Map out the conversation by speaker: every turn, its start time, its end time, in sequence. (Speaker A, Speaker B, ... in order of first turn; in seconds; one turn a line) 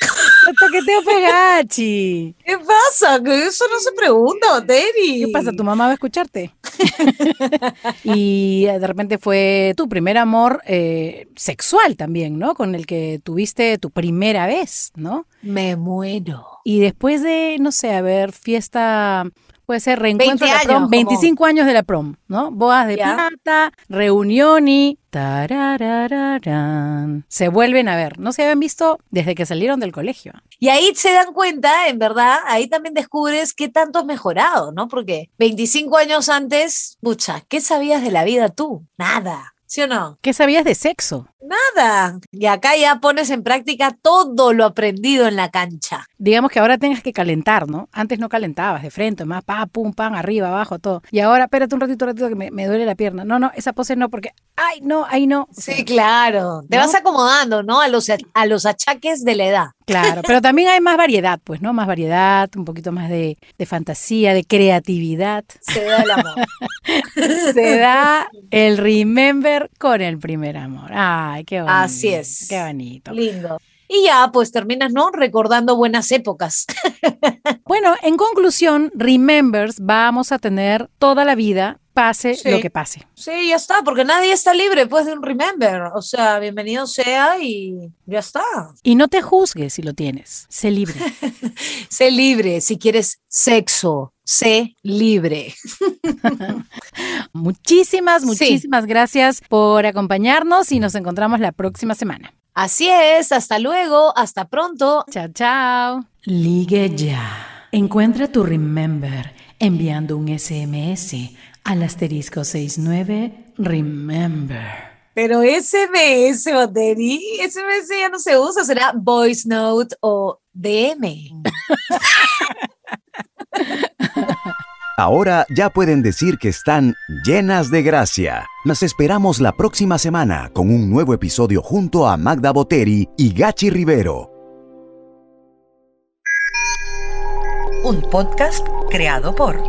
Speaker A: 0.4-2.3
Speaker B: 2.5-5.6
Speaker A: 5.2-15.2
Speaker B: 15.4-16.6
Speaker A: 16.6-30.4
Speaker B: 20.2-21.3
Speaker B: 22.9-23.2
Speaker B: 30.6-40.2
Speaker A: 40.2-41.3
Speaker B: 41.4-46.0
Speaker A: 46.2-55.9
Speaker B: 55.6-59.8
Speaker A: 56.7-57.0
Speaker A: 59.9-65.8
Speaker B: 65.7-66.4
Speaker A: 66.4-73.2
Speaker B: 71.7-77.5
Speaker A: 77.7-83.0
Speaker B: 82.3-82.7
Speaker B: 83.2-88.7
Speaker A: 88.8-91.1
Speaker B: 91.0-96.5
Speaker A: 96.3-102.3
Speaker B: 98.3-98.6
Speaker B: 102.6-105.1
Speaker A: 105.1-114.8
Speaker B: 115.2-121.3
Speaker A: 123.8-124.5
Speaker C: 125.0-134.3